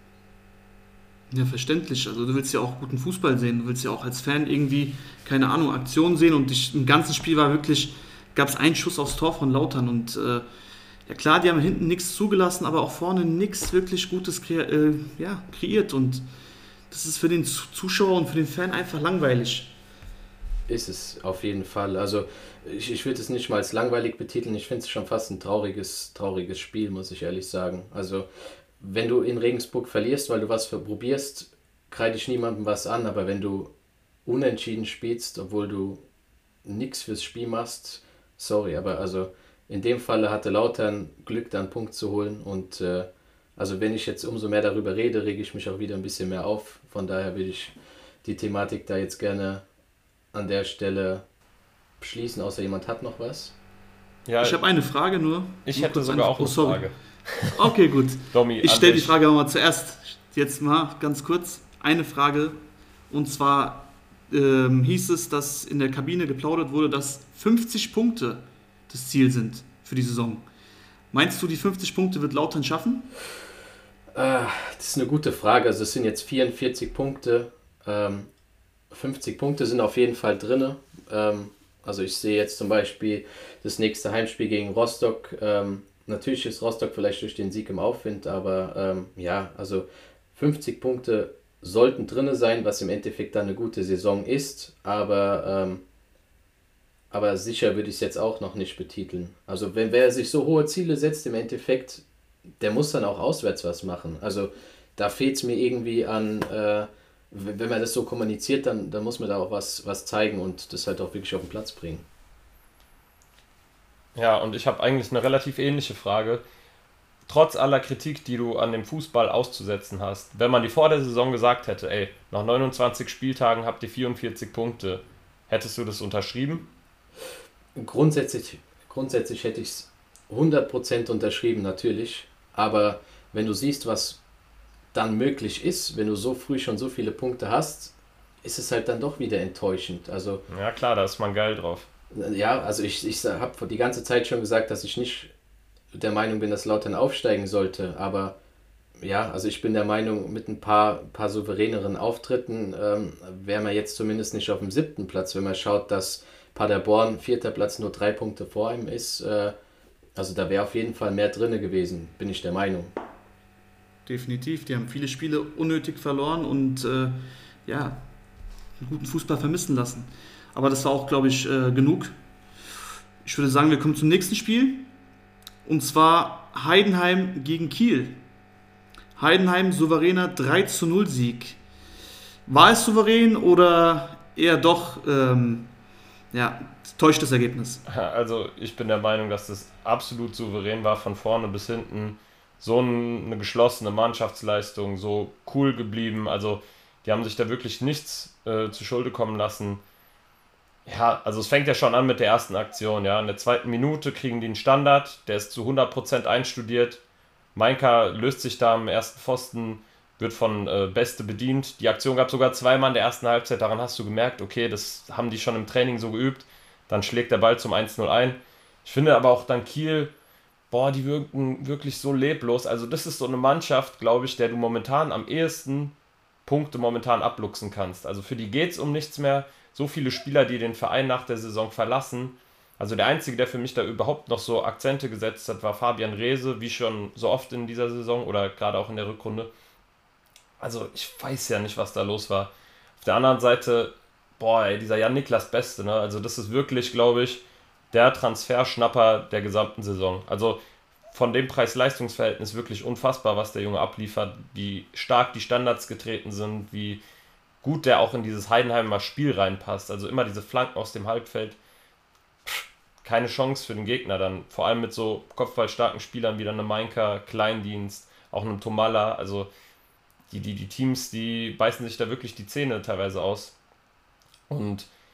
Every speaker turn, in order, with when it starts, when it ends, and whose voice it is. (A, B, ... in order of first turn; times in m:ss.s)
0:01.3-0:10.5 A
0:11.1-0:16.2 A
0:16.9-0:19.8 A
0:20.7-0:28.3 B
0:28.8-0:33.7 B
0:34.2-0:36.0 B
0:36.6-0:49.6 B
0:50.3-0:51.2 B
0:52.0-0:53.6 B
0:54.3-0:54.6 C
0:54.4-1:10.5 A
0:55.7-0:57.7 C
0:58.3-0:59.1 C
1:11.1-1:13.1 A
1:14.2-1:18.3 B
1:18.9-1:35.8 B
1:37.1-1:42.0 B
1:42.6-1:52.0 B
1:54.2-1:56.4 C
1:57.3-2:06.7 C
2:07.8-2:14.2 B
2:14.9-2:20.4 B
2:20.5-2:21.9 C
2:22.1-2:25.3 B
2:25.9-2:28.4 B
2:29.0-2:39.6 B
2:40.2-2:42.9 B
2:44.1-2:48.1 A
2:48.8-2:52.2 A
2:53.2-2:54.9 A
2:55.6-2:58.2 A
2:59.2-3:01.6 A
3:02.5-3:05.7 A
3:06.3-3:07.8 A
3:07.9-3:19.8 C
3:20.9-3:27.0 C
3:27.6-3:40.1 C
3:40.7-3:45.9 C
3:46.5-3:59.5 C
4:00.6-4:10.6 C
4:11.1-4:17.0 C
4:17.6-4:21.6 C
4:22.5-4:29.5 C
4:30.3-4:33.6 C
4:34.5-4:34.9 C